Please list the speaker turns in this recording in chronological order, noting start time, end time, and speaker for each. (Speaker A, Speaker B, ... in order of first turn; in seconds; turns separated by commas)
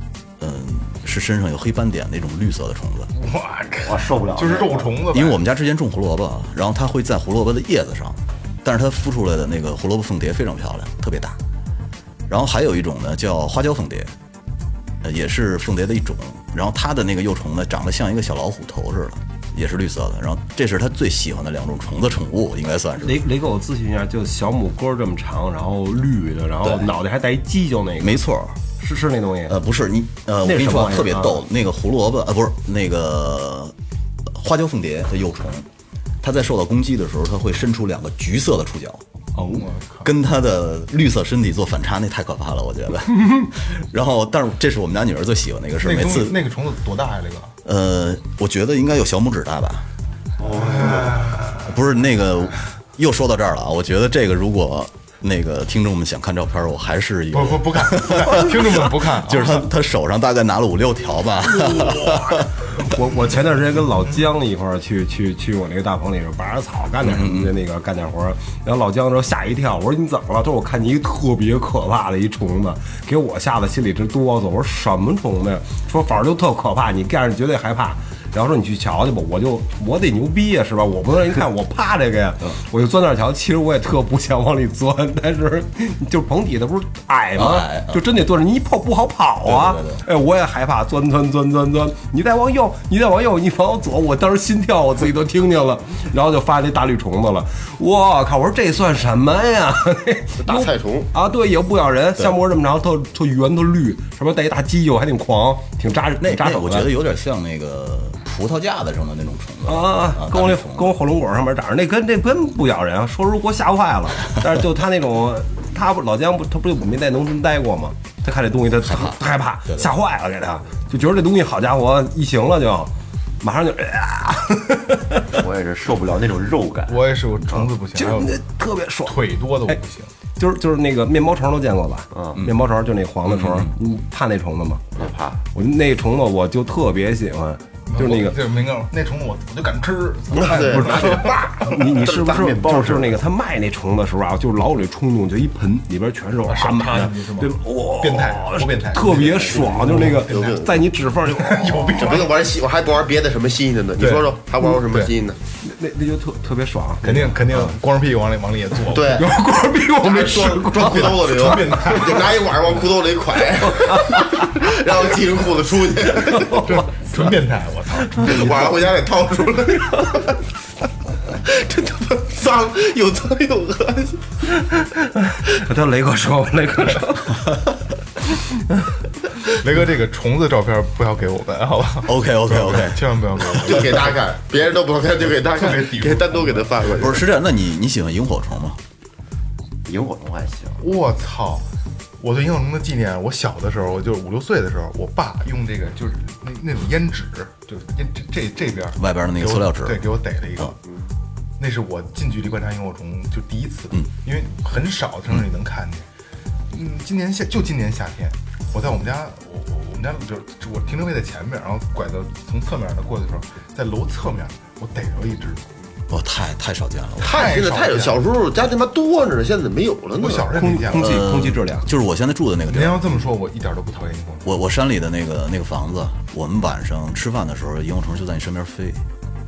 Speaker A: 0.4-3.1, Speaker B: 3.1-5.4, Speaker C: 3.8-5.0, Speaker A: 5.1-11.4, Speaker A: 12.3-14.1, Speaker A: 15.0-23.2, Speaker D: 23.0-29.6, Speaker A: 28.0-28.6, Speaker A: 29.5-33.7, Speaker D: 30.4-31.4, Speaker A: 34.2-35.7, Speaker A: 36.2-39.0, Speaker B: 39.3-40.1, Speaker A: 40.0-46.4, Speaker B: 45.8-47.5, Speaker A: 47.6-49.9, Speaker B: 50.4-51.6, Speaker C: 50.6-51.1, Speaker A: 50.8-62.7, Speaker B: 57.3-59.6, Speaker D: 61.4-106.9, Speaker A: 67.0-67.5, Speaker A: 87.3-88.0, Speaker A: 89.4-90.0, Speaker E: 100.4-101.1, Speaker A: 106.2-110.9, Speaker D: 109.7-125.3, Speaker A: 118.8-119.2, Speaker C: 125.3-127.7, Speaker B: 126.9-128.3, Speaker D: 127.9-129.8, Speaker B: 129.1-130.1, Speaker D: 130.4-135.0, Speaker C: 132.1-132.4, Speaker A: 133.3-133.7, Speaker C: 134.9-135.4, Speaker D: 135.5-138.4, Speaker B: 137.9-141.8, Speaker E: 140.3-141.4, Speaker D: 140.5-152.1, Speaker E: 142.0-142.4, Speaker C: 142.2-143.2, Speaker B: 146.5-150.6, Speaker E: 150.1-150.7, Speaker B: 151.3-152.3, Speaker E: 152.0-155.4, Speaker B: 154.0-155.1, Speaker D: 155.6-157.7, Speaker B: 157.0-159.2, Speaker E: 158.9-159.4, Speaker D: 159.2-161.7, Speaker E: 160.0-166.7, Speaker B: 160.7-162.4, Speaker D: 163.7-164.6, Speaker D: 166.2-166.8, Speaker B: 166.6-168.6, Speaker E: 168.2-170.4, Speaker E: 171.4-174.3, Speaker D: 174.7-177.7, Speaker B: 179.4-184.1, Speaker A: 182.0-183.2, Speaker E: 183.6-187.2, Speaker B: 185.5-187.0, Speaker A: 186.9-188.8, Speaker C: 189.8-190.8, Speaker B: 190.8-191.7, Speaker B: 192.2-200.8, Speaker A: 198.9-200.0, Speaker B: 201.6-206.1, Speaker B: 206.7-215.7, Speaker A: 216.1-217.5, Speaker E: 217.2-220.5, Speaker B: 217.2-218.2, Speaker B: 220.2-221.3, Speaker D: 220.5-221.9, Speaker A: 220.9-223.0, Speaker B: 222.7-224.6, Speaker A: 224.4-229.0